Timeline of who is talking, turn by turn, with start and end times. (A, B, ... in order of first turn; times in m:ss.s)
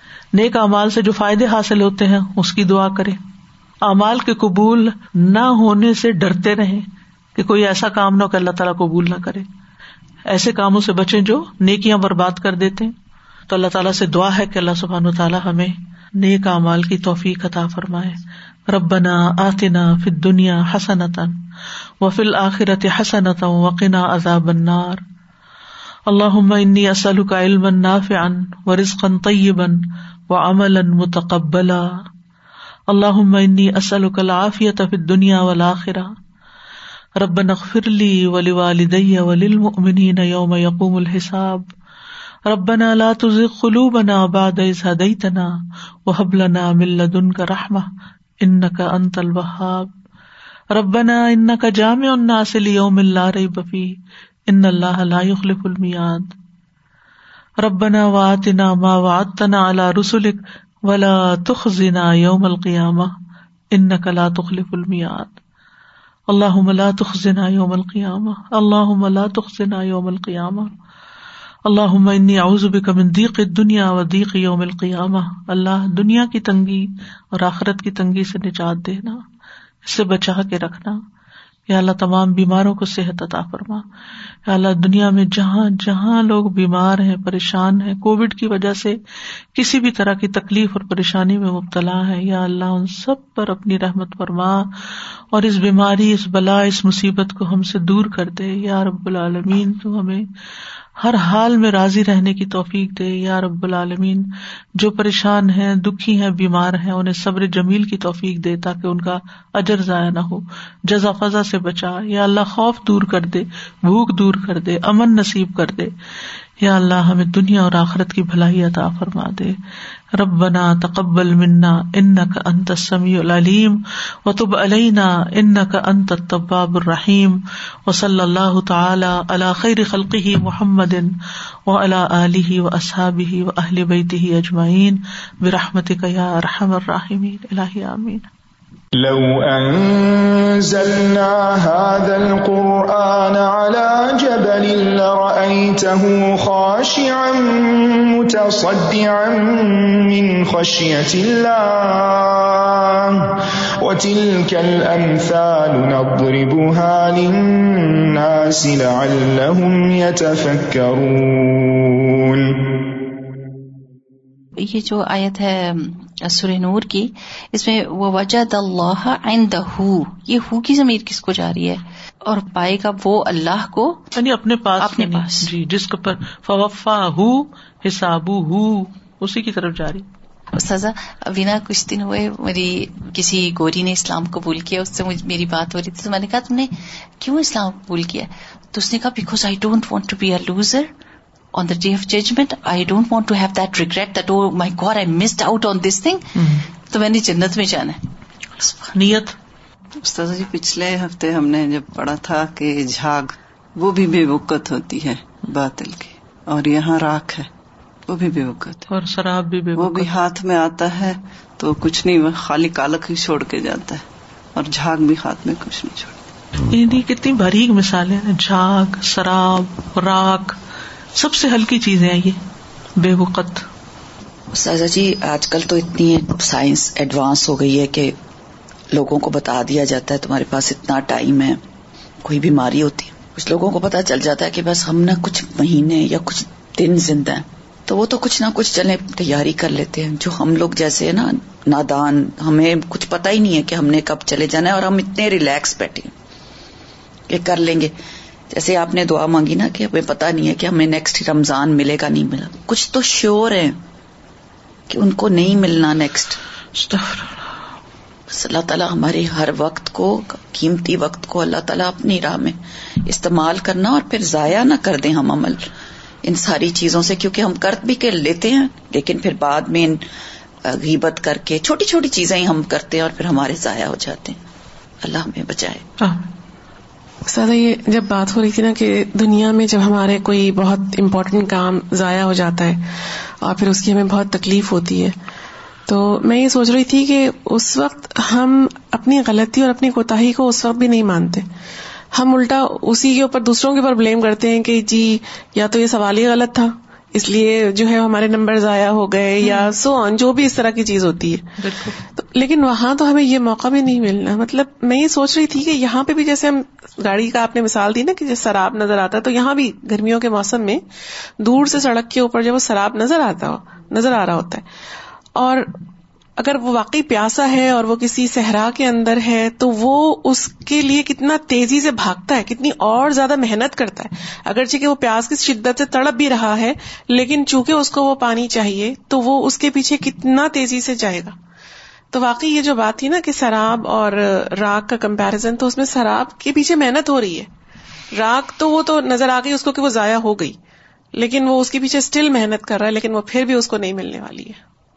0:00.3-0:03.2 A
0:03.8-0:09.4 A
0:10.3-0:12.9 A
0:13.5-0:21.4 A
0:22.0-0:25.0 A
0:26.1-0:31.9 A
0:32.9-0:36.1 A
0:37.2-0:41.7 A
0:42.5-0:45.5 A
0:46.0-0:47.9 A
0:48.4-0:49.9 A
0:50.7-0:53.9 A
0:54.5-0:56.3 A
0:57.6-1:03.1 A
1:03.7-1:05.4 A
1:06.3-1:10.7 A
1:11.6-1:19.2 A
1:19.8-1:21.0 A
1:21.7-1:23.8 A
1:24.5-1:29.0 A
1:29.5-1:34.8 A
1:35.3-1:40.3 A
1:41.0-1:55.9 A
1:56.6-1:59.6 A
2:00.1-2:11.1 A
2:11.7-2:18.2 A
2:19.0-2:42.6 B
2:44.6-2:54.0 C
2:54.1-3:00.0 A
2:54.8-2:55.5 C
3:00.5-3:10.9 C
3:11.5-3:16.3 C
3:16.4-3:16.7 A
3:16.9-3:18.0 C
3:18.8-3:19.3 A
3:20.0-3:27.5 D
3:28.1-3:28.9 D
3:28.9-3:30.1 A
3:29.8-3:34.0 D
3:34.6-3:36.1 D
3:36.6-3:40.6 A
3:41.2-3:42.4 A
3:43.0-3:43.6 A
3:44.5-3:48.2 E
3:48.9-3:51.6 E
3:52.2-4:06.1 E
4:07.3-4:07.9 E
4:08.5-4:13.8 E
4:14.9-4:16.4 E
4:16.8-4:17.3 A
4:18.3-4:25.7 E
4:26.2-4:30.0 E
4:30.6-4:34.4 E
4:35.0-4:35.8 E
4:36.0-4:36.3 A
4:37.3-4:42.9 F
4:43.4-4:45.2 F
4:45.9-4:51.5 F
4:52.1-5:10.8 F
5:01.6-5:01.9 A
5:11.4-5:14.6 F
5:15.3-5:15.8 F
5:16.4-5:31.3 F
5:32.1-5:37.5 F
5:38.1-5:40.6 F
5:41.1-5:44.6 F